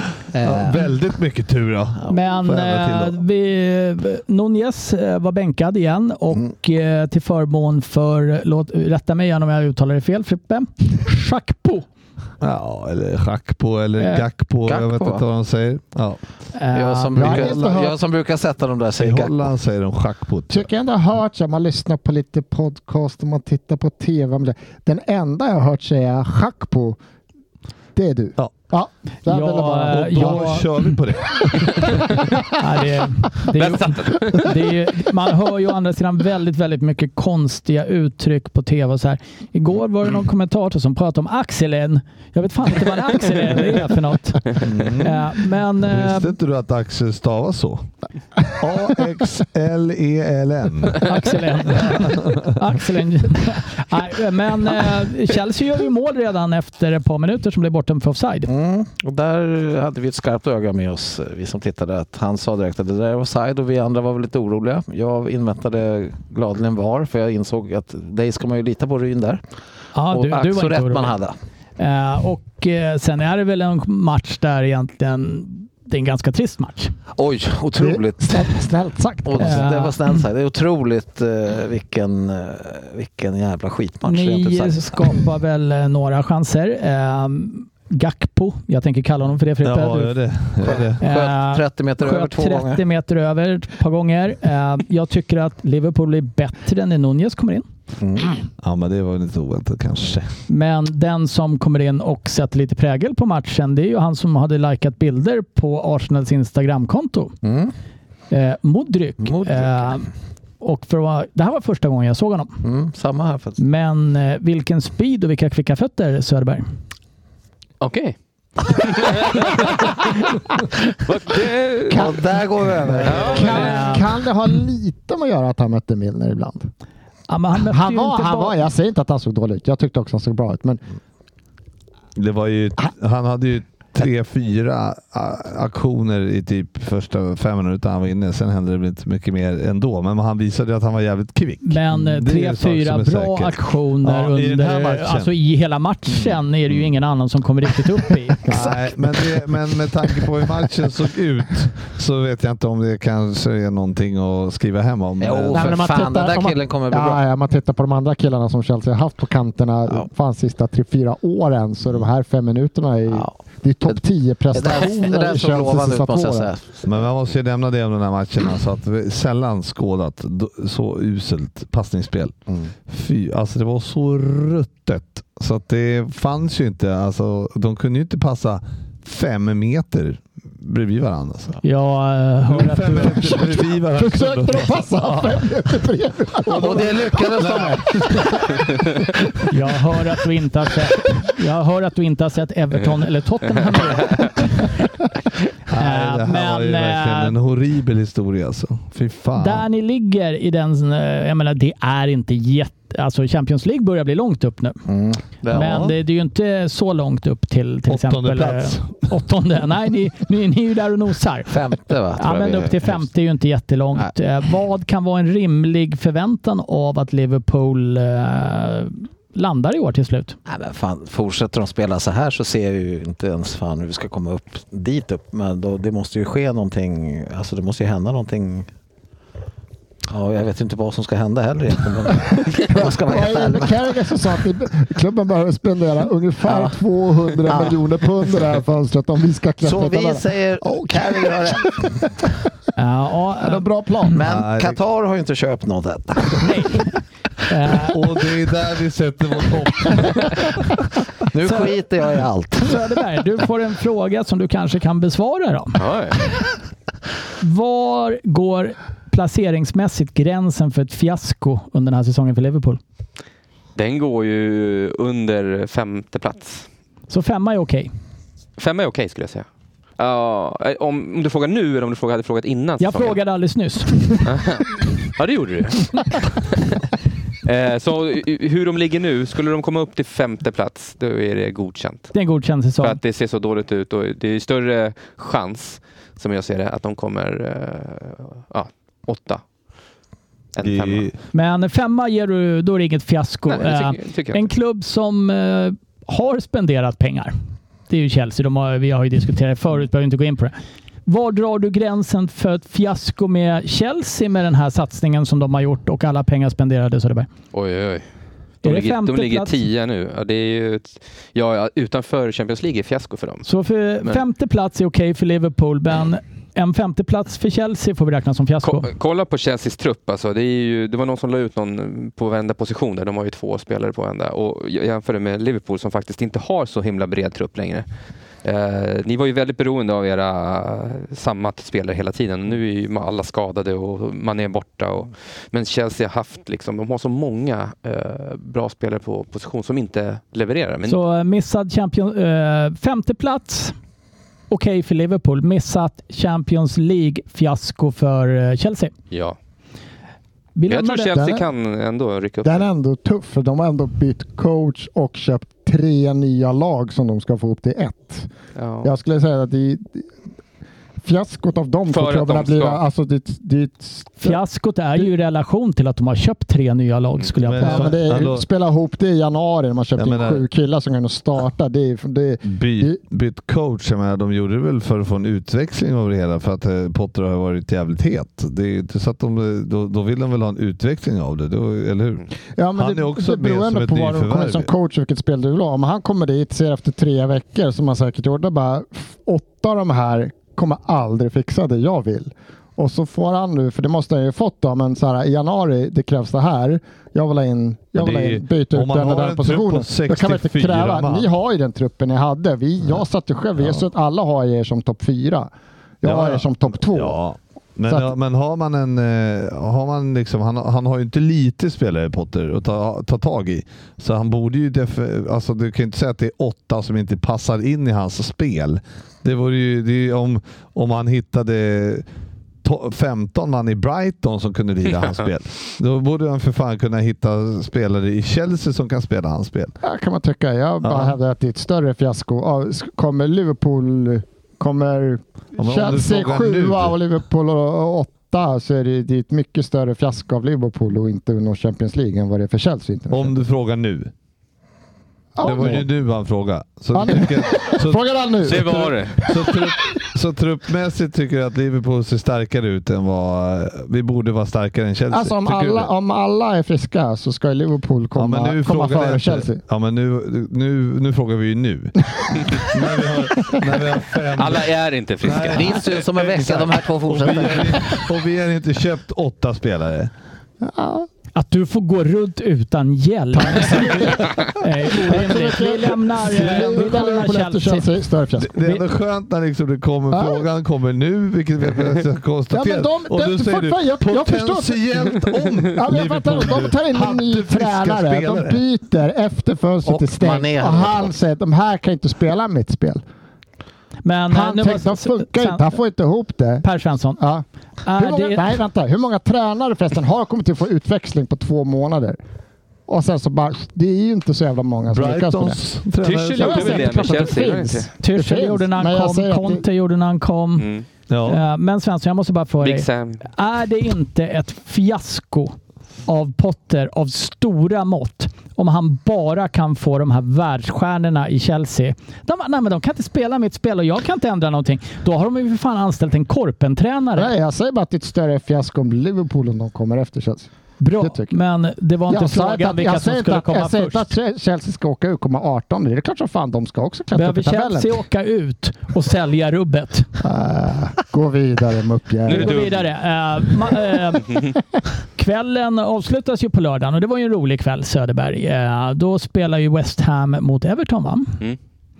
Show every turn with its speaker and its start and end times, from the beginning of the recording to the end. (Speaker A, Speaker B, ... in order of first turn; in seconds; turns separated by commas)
Speaker A: 0.3-0.9, Speaker B: 0.4-3.2, Speaker C: 2.1-11.8, Speaker B: 12.4-16.2, Speaker C: 14.0-14.2, Speaker A: 14.6-15.2, Speaker C: 16.5-17.4, Speaker A: 16.7-19.5, Speaker D: 17.1-17.9, Speaker B: 17.2-17.8, Speaker B: 19.0-20.7, Speaker D: 20.5-27.0, Speaker D: 27.9-30.5, Speaker C: 29.2-31.0, Speaker B: 29.9-32.0, Speaker D: 31.5-32.2, Speaker C: 32.6-46.4, Speaker E: 33.6-34.5, Speaker B: 44.6-47.9, Speaker B: 48.6-51.1, Speaker C: 51.0-58.5, Speaker B: 51.7-52.5, Speaker A: 58.5-69.4, Speaker C: 69.9-71.1, Speaker A: 70.1-71.3, Speaker C: 71.8-76.9, Speaker A: 77.1-78.6, Speaker D: 77.8-79.7, Speaker A: 79.2-85.2, Speaker C: 79.4-79.9, Speaker C: 84.0-90.2, Speaker B: 89.6-91.0, Speaker A: 90.6-92.8, Speaker C: 91.0-97.6, Speaker A: 98.0-98.4, Speaker B: 98.6-100.3, Speaker C: 100.5-107.3, Speaker A: 107.4-107.7, Speaker C: 108.3-110.1, Speaker A: 109.2-110.0, Speaker C: 110.6-112.6, Speaker A: 112.6-113.6, Speaker C: 113.6-116.6, Speaker E: 117.8-120.2, Speaker E: 120.9-122.2, Speaker A: 121.9-123.6, Speaker D: 121.9-122.2, Speaker D: 122.9-126.7, Speaker E: 123.0-123.9, Speaker C: 123.3-124.1, Speaker C: 127.3-128.6, Speaker D: 127.7-130.8, Speaker B: 132.2-145.3, Speaker C: 141.6-148.7, Speaker B: 148.5-155.7, Speaker A: 155.2-157.2, Speaker D: 155.5-166.5, Speaker A: 163.1-164.0, Speaker A: 164.5-166.9, Speaker B: 166.8-172.3, Speaker B: 172.9-181.6, Speaker C: 181.6-183.5, Speaker B: 182.4-185.7, Speaker D: 183.3-188.7, Speaker B: 186.4-188.3, Speaker A: 186.5-188.2, Speaker C: 189.5-194.7, Speaker B: 195.7-199.7, Speaker C: 195.7-197.3, Speaker C: 199.4-204.8, Speaker A: 204.9-205.9, Speaker C: 205.5-211.6, Speaker B: 205.5-206.0, Speaker B: 207.9-209.0, Speaker A: 211.5-213.1, Speaker C: 212.2-220.4, Speaker A: 220.5-228.7, Speaker A: 230.1-233.8, Speaker D: 232.3-242.1, Speaker A: 236.4-236.8, Speaker A: 237.5-237.8, Speaker A: 239.6-241.8, Speaker C: 242.8-243.7, Speaker D: 243.4-244.2, Speaker A: 244.1-246.7, Speaker B: 244.2-244.8, Speaker C: 246.4-246.9, Speaker C: 247.5-248.0, Speaker B: 247.8-250.6, Speaker A: 251.3-252.8, Speaker C: 251.4-251.7, Speaker C: 252.6-255.8, Speaker E: 255.7-256.2, Speaker C: 257.4-262.8, Speaker E: 263.8-266.7, Speaker C: 267.1-267.9, Speaker E: 268.6-269.4, Speaker E: 270.0-273.2, Speaker C: 272.8-274.3, Speaker E: 274.2-276.8, Speaker E: 277.4-282.1, Speaker C: 282.1-283.0, Speaker E: 282.8-289.4, Speaker E: 290.5-291.1, Speaker B: 290.6-291.1, Speaker C: 291.3-297.3, Speaker E: 293.5-294.5, Speaker C: 297.9-300.6, Speaker C: 301.1-307.3, Speaker E: 307.5-308.1, Speaker E: 308.6-313.5, Speaker C: 308.6-309.5, Speaker C: 313.4-318.9, Speaker E: 318.6-327.9, Speaker E: 328.4-341.0, Speaker C: 340.9-343.8, Speaker C: 344.5-348.9, Speaker E: 349.1-349.4, Speaker C: 350.6-351.1, Speaker E: 350.7-352.7, Speaker D: 351.1-351.5, Speaker D: 352.4-358.3, Speaker E: 358.6-358.9, Speaker D: 358.8-360.1, Speaker D: 361.0-364.4, Speaker E: 361.9-362.8, Speaker C: 364.2-368.0, Speaker B: 367.4-368.4, Speaker D: 367.6-373.0, Speaker B: 369.9-370.4, Speaker B: 372.4-384.7, Speaker D: 382.6-407.2, Speaker B: 397.9-401.3, Speaker B: 403.6-403.9, Speaker B: 406.0-422.1, Speaker B: 422.6-429.8, Speaker D: 429.8-443.3, Speaker B: 430.8-431.1, Speaker B: 435.6-436.9, Speaker B: 443.1-444.1, Speaker D: 445.4-445.9, Speaker B: 445.4-455.9, Speaker D: 446.9-449.6, Speaker E: 448.4-449.2, Speaker D: 455.1-459.6, Speaker B: 458.1-461.9, Speaker B: 462.5-464.7, Speaker E: 464.4-466.0, Speaker B: 465.2-470.1, Speaker A: 465.4-468.0, Speaker D: 470.6-471.1, Speaker C: 471.3-477.9, Speaker D: 473.4-478.6, Speaker B: 476.4-476.9, Speaker B: 478.4-488.6, Speaker C: 478.6-478.8, Speaker D: 480.1-480.4, Speaker D: 482.5-484.8, Speaker D: 485.6-493.0, Speaker A: 489.9-491.1, Speaker C: 494.0-495.7, Speaker D: 494.3-496.6, Speaker C: 496.6-497.2, Speaker D: 497.2-502.2, Speaker C: 497.8-498.4, Speaker D: 502.9-505.6, Speaker B: 504.9-507.3, Speaker E: 506.0-507.9, Speaker D: 506.4-509.6, Speaker C: 508.0-510.7, Speaker E: 510.6-510.9, Speaker B: 511.1-511.4, Speaker C: 511.3-527.3, Speaker E: 512.6-513.2, Speaker D: 527.1-531.3, Speaker C: 530.8-534.1, Speaker D: 532.1-537.9, Speaker C: 537.1-540.1, Speaker D: 540.2-542.6, Speaker E: 542.2-542.9, Speaker C: 542.3-544.5, Speaker C: 545.1-551.4